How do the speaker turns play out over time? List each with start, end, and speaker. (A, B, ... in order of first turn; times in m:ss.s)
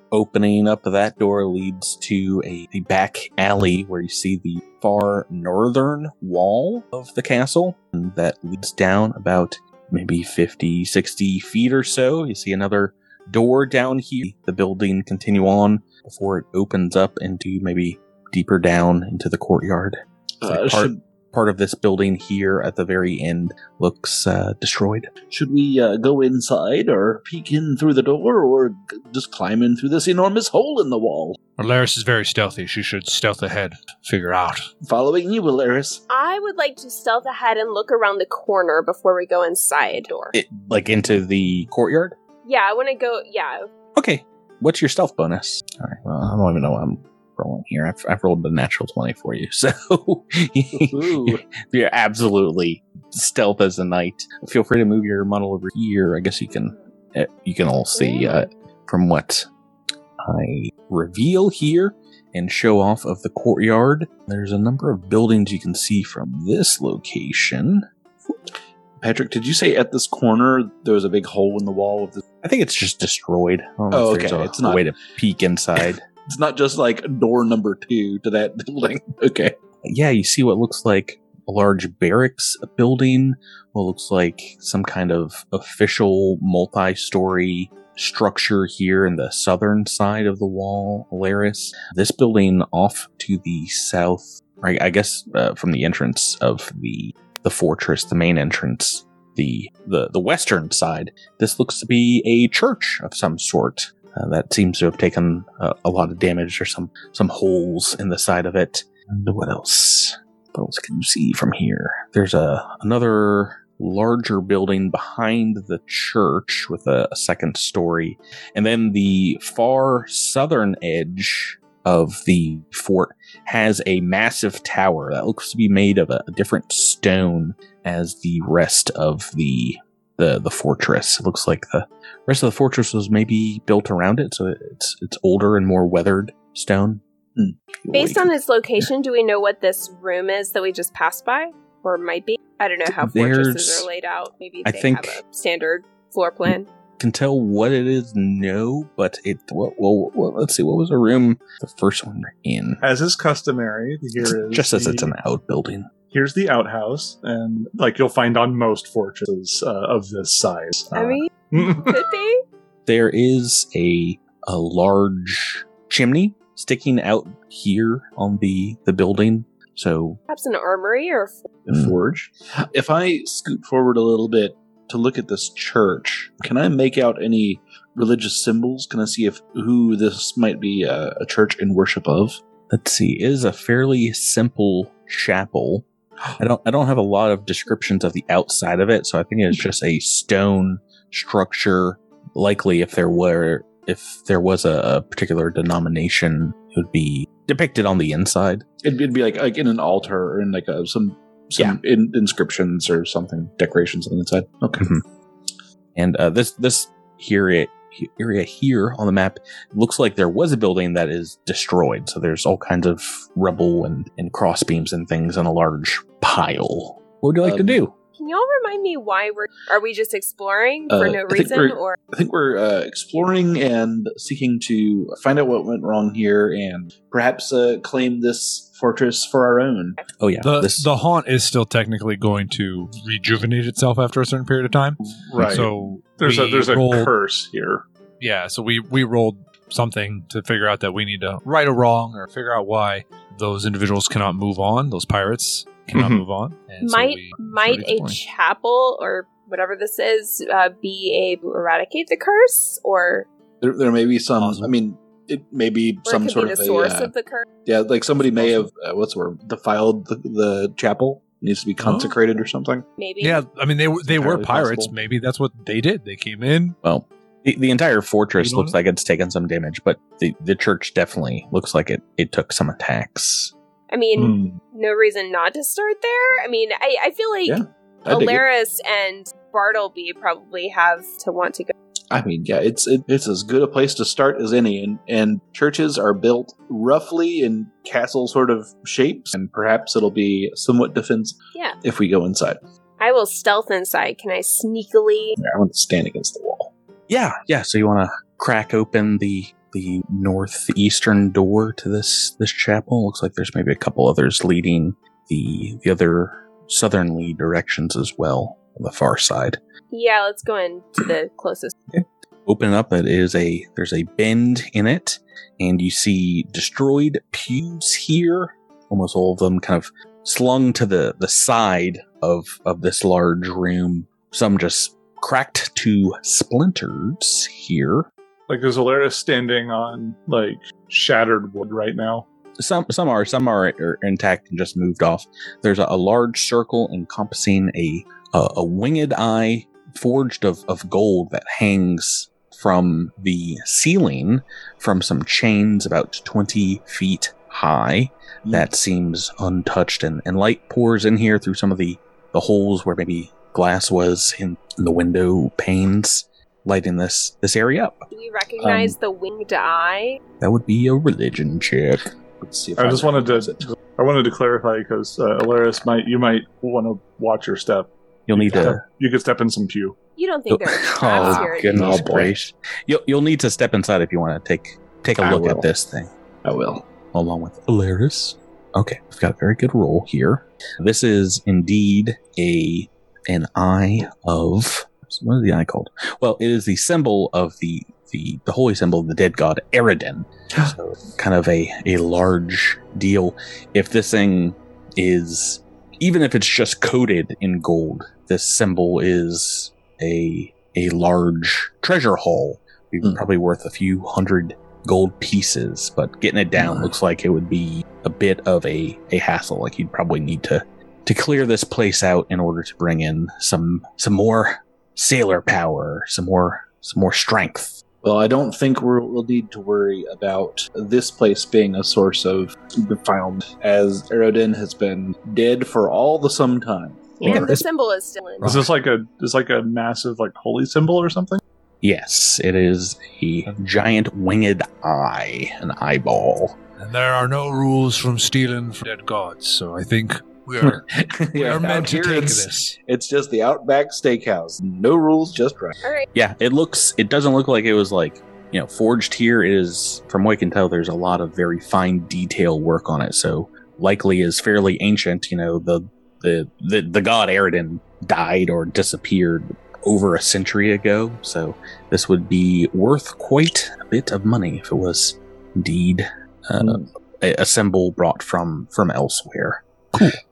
0:00.1-0:25.1 A
0:20.4-0:21.0 B
0:25.3-0:31.4 B
0:31.6-0:34.7 C
0:34.8-0:36.0 B
0:36.1-0:40.4 D
0:40.3-0:42.2 A
0:42.4-0:43.7 D
0:44.0-0:59.5 A
0:50.7-0:51.4 B
0:57.9-0:58.5 D
1:00.2-1:07.9 A
1:09.0-1:12.2 B
1:12.4-1:16.1 A
1:13.9-1:14.8 B
1:16.3-1:19.6 B
1:19.8-2:17.0 A
2:17.9-2:18.3 A
2:17.9-2:26.7 D
2:22.9-2:23.9 A
2:24.6-2:25.2 A
2:27.0-2:32.8 A
2:32.8-2:35.1 E
2:34.2-2:35.9 A
2:36.1-2:42.0 E
2:40.9-2:42.4 D
2:42.9-2:50.2 A
2:50.3-2:51.5 D
2:51.7-3:02.4 B
3:02.7-3:18.7 A
3:18.8-3:24.9 B
3:26.0-3:37.9 A
3:37.4-3:37.8 B
3:38.2-3:42.0 D
3:40.9-3:50.0 B
3:50.2-3:50.9 A
3:50.4-3:57.1 C
3:55.2-3:57.8 E
3:58.2-4:08.2 C
4:05.9-4:06.2 E
4:06.8-4:13.3 D
4:13.6-4:17.1 B
4:14.4-4:14.7 C
4:16.0-4:17.5 D
4:17.6-4:22.9 B
4:18.4-4:18.6 C
4:21.8-4:22.1 C
4:23.0-4:23.4 D
4:23.2-4:26.8 C
4:24.1-4:24.9 B
4:26.8-4:33.5 A
4:28.4-4:28.8 C
4:33.9-4:41.7 D
4:34.2-4:34.6 E
4:37.5-4:38.4 B
4:42.1-4:52.6 B
4:53.0-4:55.4 D
4:55.4-4:56.7 B
4:57.1-5:09.6 A
5:09.9-5:11.8 D
5:11.9-5:28.1 A
5:28.5-5:32.3 E
5:32.6-5:58.1 A
5:58.1-6:00.2 D
5:58.6-5:58.9 B
6:00.4-6:02.1 A
6:02.4-6:03.7 B
6:02.8-6:10.0 E
6:08.3-6:08.8 A
6:10.2-6:12.1 D
6:10.5-6:16.1 A
6:11.1-6:12.4 B
6:15.2-6:15.7 B
6:16.4-6:16.9 B
6:17.1-6:57.8 A
6:46.6-6:46.9 B
6:58.0-7:07.4 B
7:07.2-7:08.7 D
7:07.2-7:07.6 A
7:08.4-7:11.4 E
7:11.8-7:16.6 A
7:16.8-7:22.8 C
7:20.6-7:25.8 B
7:25.8-7:26.1 D
7:26.2-7:50.2 A
7:46.6-7:46.9 B